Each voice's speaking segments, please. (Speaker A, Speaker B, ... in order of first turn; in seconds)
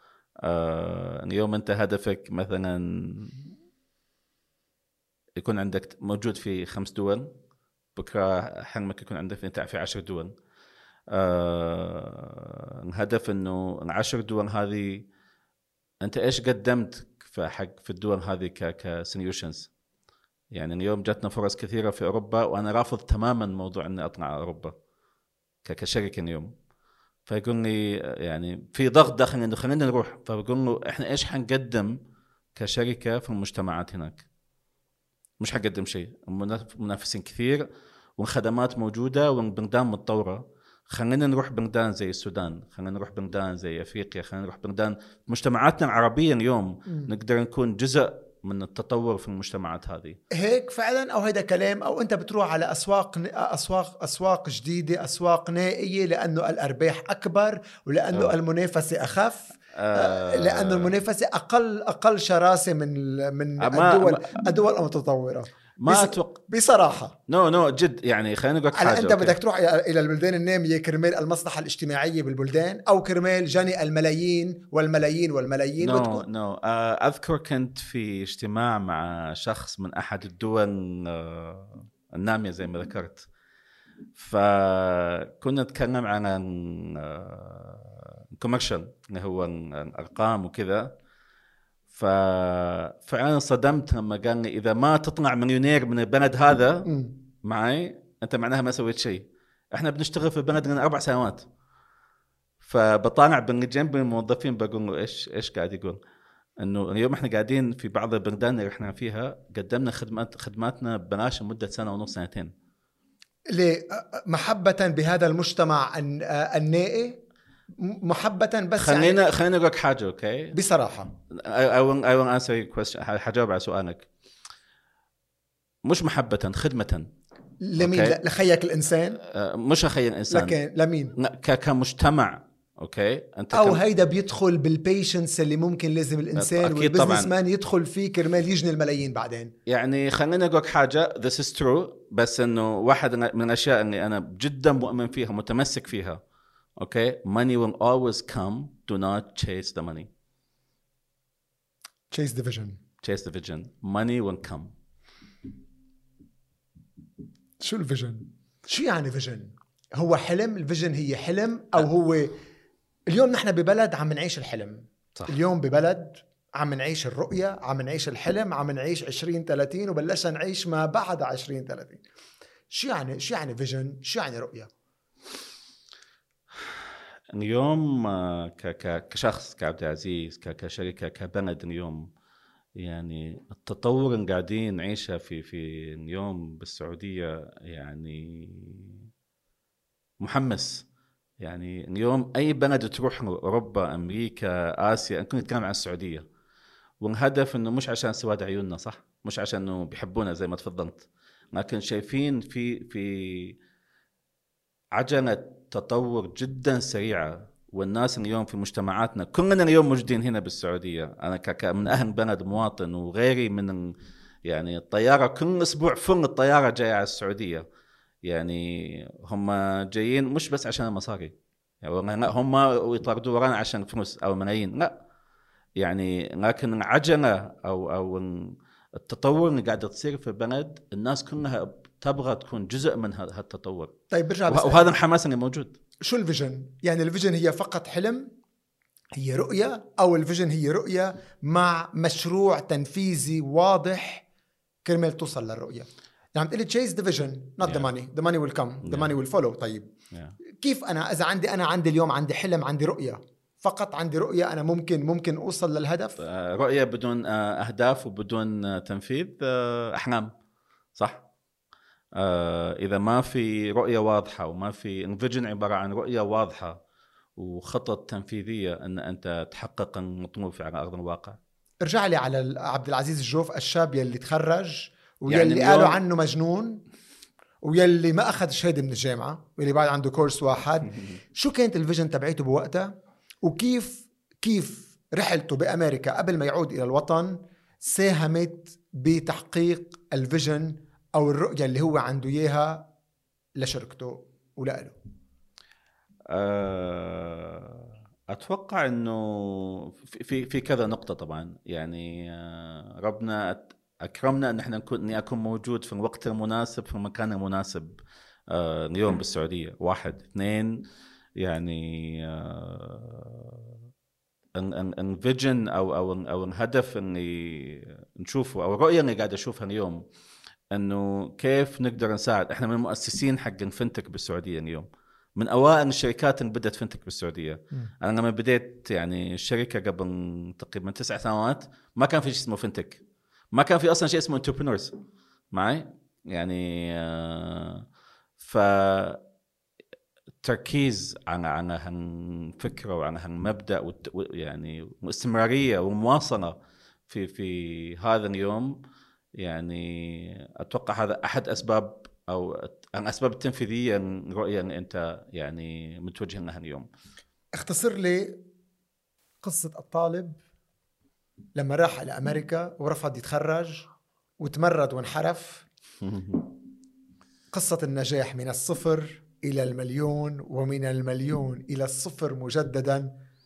Speaker A: 0.4-3.4, 5.4-7.3, 8.0-10.3, 11.1-15.1, 16.0-19.7, 20.5-24.7, 25.6-26.5, 27.3-31.9, 32.5-34.2, 35.4-37.6, 38.2-50.2, 59.7-60.9, 63.6-64.3, 65.8-66.3, 67.3-69.4, 75.8-83.2, 84.2-90.9, 91.9-96.9, 97.4-99.2, 99.7-101.5, 102.6-106.0, 106.6-112.5, 118.8-120.5, 121.3-124.1, 125.8-127.1, 127.8-128.2, 129.2-130.6, 131.2-133.8, 136.3-137.3, 139.7-146.2, 146.8-150.1, 153.0-154.7, 177.3-182.1, 182.8-189.1, 190.2-190.8, 191.4-196.2, 197.0-203.6, 204.9-213.9, 214.5-217.6, 218.2-224.9, 225.8-233.9, 234.5-235.7, 247.6-247.9, 248.8-249.1, 256.2-260.3, 260.9-261.2, 262.1-266.8, 267.4-271.4, 275.3-276.0, 296.3-307.9, 308.5-310.7, 311.4-313.7, 314.6-320.0, 320.7-333.0, 333.5-334.9, 335.5-337.8, 338.4-339.2, 340.4-346.6, 347.1-348.8, 349.4-356.9, 366.0-366.5
Speaker B: 50.3-67.2, 68.7-76.2, 96.8-97.1, 113.5-117.2, 117.8-119.2, 120.5-121.1, 127.6-129.2, 130.3-131.1, 133.5-139.5, 152.1-152.8, 157.6-162.3, 163.1-172.0, 172.7-174.7, 234.1-234.9, 236.0-238.3, 239.2-244.2, 244.8-249.9, 250.6-256.2, 271.8-276.8, 277.6-292.9, 293.6-294.9, 357.6-358.4, 359.4-360.4, 361.6-363.9, 364.4-365.6, 367.5-373.1